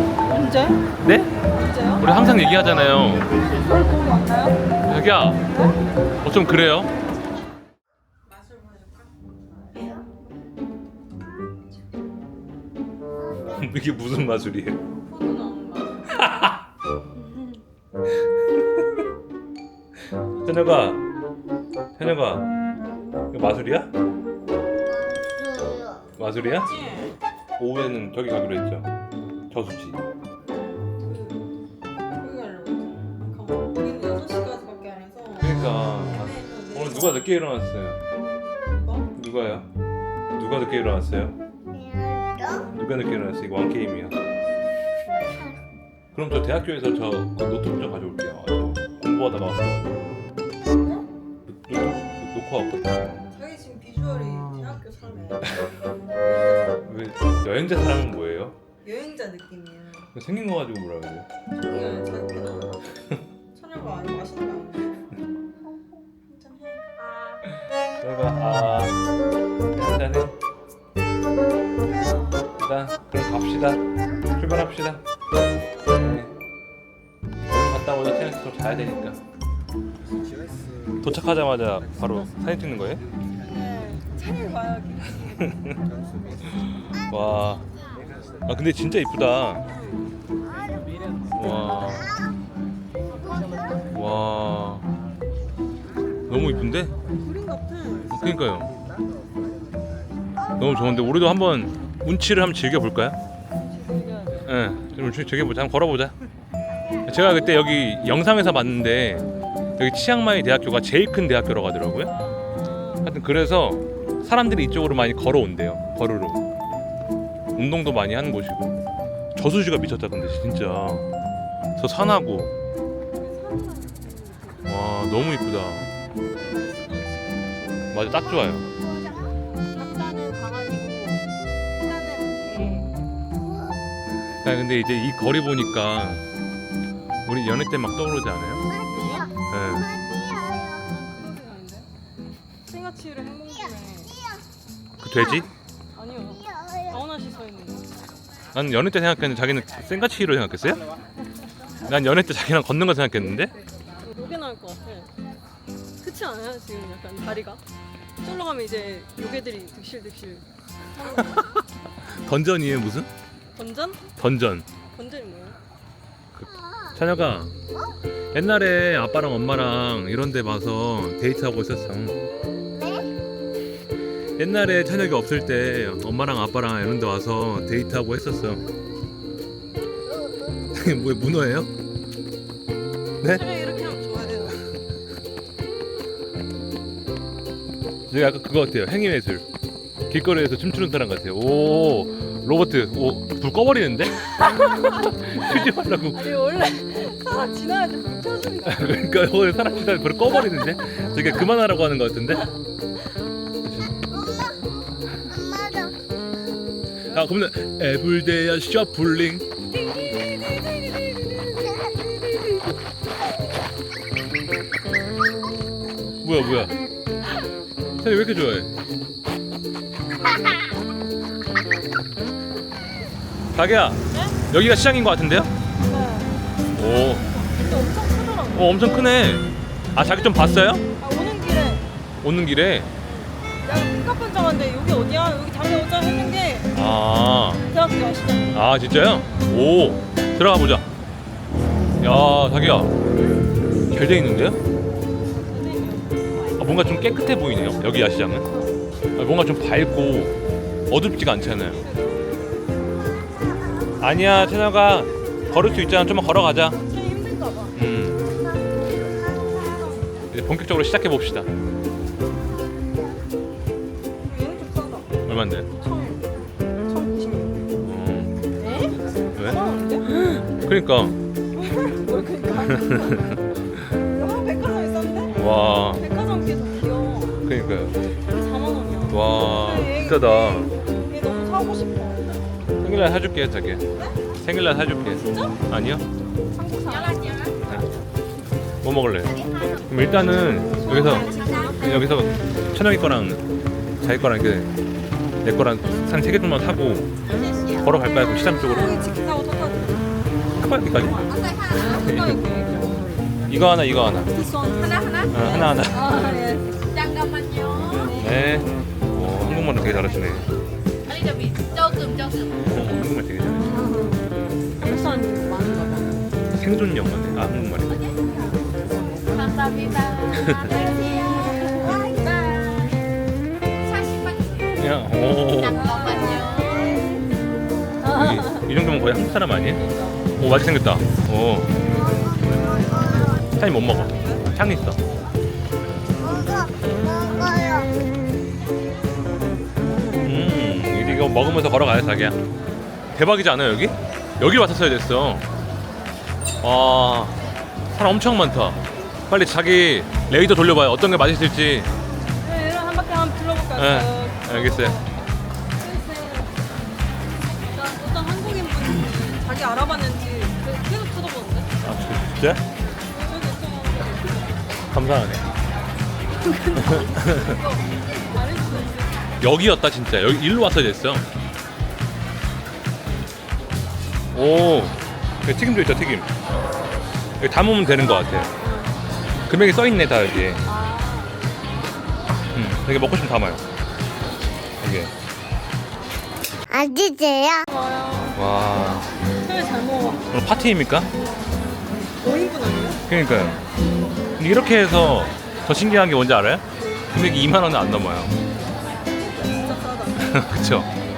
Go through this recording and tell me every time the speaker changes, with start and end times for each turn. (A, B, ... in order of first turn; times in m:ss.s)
0:00.2-0:00.8 A
0:01.0-0:01.3 B
0:01.5-0:02.1 A
0:02.0-0:03.3 B
0:03.4-0:04.6 A
0:04.8-0:05.4 B
0:05.5-0:05.8 A
0:06.2-0:06.9 B
0:08.2-0:09.1 A
0:09.7-0:10.0 A
0:11.7-0:12.0 A
0:13.4-0:14.8 B
0:14.9-0:16.5 A
0:16.1-0:16.6 B
0:20.4-0:20.9 A
0:20.4-0:21.0 B
0:22.0-0:22.5 B
0:23.3-0:23.9 B
0:25.0-0:26.0 C
0:26.2-0:26.7 B
0:26.3-0:27.1 A
0:27.6-0:28.9 B
0:29.5-0:30.0 B
0:30.5-0:31.5 A
0:32.2-0:37.3 A
0:35.4-0:38.0 B
0:38.7-0:39.1 A
0:39.2-0:39.7 B
0:40.4-0:41.4 B
0:41.7-0:42.6 C
0:42.7-0:44.2 B
0:45.1-0:45.5 A
0:46.1-0:49.9 B
0:50.7-0:51.0 A
0:51.5-0:53.3 B
0:53.3-0:56.9 A
0:56.8-0:58.6 B
0:58.8-1:00.1 A
1:00.1-1:01.3 B
1:01.5-1:02.8 A
1:03.5-1:05.1 A
1:06.2-1:07.4 A
1:07.4-1:09.0 B
1:09.7-1:10.3 B
1:11.8-1:12.5 A
1:12.6-1:13.8 B
1:14.3-1:15.0 B
1:15.8-1:16.3 B
1:17.5-1:19.2 B
1:21.0-1:23.0 B
1:23.4-1:25.7 A
1:26.5-1:27.6 B
1:28.4-1:29.6 B
1:29.6-1:30.1 A
1:31.3-1:32.1 B
1:33.9-1:34.9 B
1:36.3-1:36.9 B
1:37.2-1:38.1 A
1:38.1-1:38.7 B
1:40.6-1:43.2 B
1:43.5-1:44.5 A
1:44.4-1:46.1 B
1:47.1-1:49.2 B
1:49.8-1:52.1 B
1:52.1-1:53.1 A
1:53.0-1:56.4 B
1:57.6-1:58.7 B
1:59.4-2:01.1 B
2:01.8-2:02.5 B
2:03.2-2:05.2 A
2:04.6-2:05.9 B
2:06.4-2:08.3 A
2:07.9-2:08.6 B
2:09.7-2:12.9 A
2:14.4-2:16.2 B
2:17.3-2:18.6 B
2:18.7-2:19.3 A
2:19.5-2:19.9 B
2:19.9-2:20.6 C
2:20.7-2:21.9 A
2:22.6-2:24.2 A
2:25.0-2:25.5 B
2:25.1-2:27.9 A
2:28.5-2:30.8 B
2:31.9-2:33.5 B
2:34.0-2:35.1 A
2:36.0-2:37.6 A
2:38.2-2:41.6 A
2:41.1-2:41.4 B
2:42.0-2:43.1 B
2:43.5-2:44.0 A
2:44.2-2:44.6 B
2:44.9-2:45.6 A
2:46.4-2:47.5 B
2:48.3-2:52.2 B
2:52.8-2:53.1 C
2:54.4-2:58.6 B
3:00.7-3:01.7 B
3:03.2-3:04.6 A
3:08.1-3:09.4 B
3:10.1-3:16.4 B
3:14.4-3:19.0 A
3:18.6-3:22.5 B
3:23.6-3:23.9 B
3:24.2-3:24.6 C
3:25.2-3:26.0 C
3:27.1-3:29.5 B
3:29.8-3:31.6 A
3:36.2-3:36.7 B
3:38.0-3:38.7 B
3:43.5-3:45.5 B
3:44.1-3:44.4 A
3:45.8-3:48.9 A
3:46.7-3:47.2 B
3:48.5-3:50.8 B
3:51.0-3:51.9 A
3:52.2-3:52.9 B
3:53.0-3:56.7 A
3:56.7-3:57.6 B
3:57.6-3:58.6 A
3:58.5-4:00.9 B
4:02.0-4:02.9 B
4:03.9-4:04.6 B
4:05.3-4:06.5 A
4:06.6-4:08.5 B
4:09.2-4:10.3 B
4:10.9-4:11.8 B
4:11.4-4:12.9 A
4:14.0-4:16.8 B
4:16.8-4:17.7 A
4:17.7-4:18.2 B
4:19.3-4:20.2 A
4:20.3-4:21.5 B
4:24.2-4:25.1 A
4:25.2-4:25.7 B
4:25.8-4:26.3 A
4:26.8-4:27.6 A
4:27.8-4:28.3 B
4:28.6-4:30.0 A
4:29.4-4:31.2 B
4:31.5-4:33.4 A
4:32.7-4:33.7 B
4:34.0-4:37.4 A
4:35.3-4:36.0 B
4:37.4-4:38.0 B
4:38.2-4:42.4 A
4:39.1-4:40.7 B
4:42.8-4:43.8 B
4:43.9-4:44.2 A
4:44.4-4:46.0 B
4:45.1-4:45.6 A
4:46.5-4:47.4 A
4:46.9-4:47.5 D
4:47.6-4:47.9 B
4:48.8-4:53.4 B
4:49.4-4:49.8 D
4:50.9-4:51.7 A
4:51.0-4:51.8 D
4:54.0-4:54.7 B
4:55.4-4:57.1 B
4:57.3-4:57.8 D
4:57.8-4:59.0 B
4:58.4-5:00.1 A
5:00.6-5:01.2 B
5:01.0-5:03.1 A
5:01.2-5:02.0 D
5:01.8-5:02.4 B
5:03.5-5:04.3 B
5:04.3-5:06.8 A
5:05.0-5:05.3 D
5:05.3-5:06.2 B
5:06.8-5:08.1 D
5:07.9-5:08.4 A
5:08.0-5:10.4 B
5:09.7-5:10.0 A
5:11.0-5:12.6 D
5:12.6-5:13.6 B
5:13.6-5:16.2 A
5:16.6-5:18.0 B
5:18.0-5:18.7 A
5:19.3-5:21.6 D
5:21.0-5:23.0 A
5:23.8-5:24.7 D
5:24.8-5:25.8 B
5:25.7-5:27.0 A
5:25.7-5:26.9 D
5:28.0-5:28.7 A
5:28.1-5:29.8 B
5:29.7-5:30.3 A
5:30.4-5:31.7 B
5:31.9-5:34.4 A
5:33.6-5:35.0 B
5:36.2-5:37.9 C
5:40.1-5:42.4 B
5:43.1-5:45.4 B
5:46.6-5:47.4 B
5:47.9-5:51.9 B
5:52.4-5:55.1 A
5:53.8-5:55.0 B
5:55.8-5:56.6 A
5:57.6-6:01.7 A
6:01.8-6:02.6 B
6:03.1-6:04.8 A
6:04.9-6:05.5 B
6:06.4-6:09.3 A
6:06.8-6:07.6 B
6:09.4-6:11.3 B
6:14.3-6:16.3 B
6:17.4-6:18.5 B
6:18.6-6:19.0 A
6:19.5-6:20.6 B
6:20.6-6:21.5 A
6:22.5-6:23.6 B
6:24.8-6:25.1 B
6:26.7-6:27.6 C
6:27.7-6:28.4 A
6:28.3-6:29.1 B
6:29.4-6:30.3 A
6:30.3-6:31.1 B
6:32.2-6:33.0 A
6:33.1-6:33.6 B
6:34.4-6:38.3 B
6:39.1-6:40.4 A
6:40.2-6:40.9 B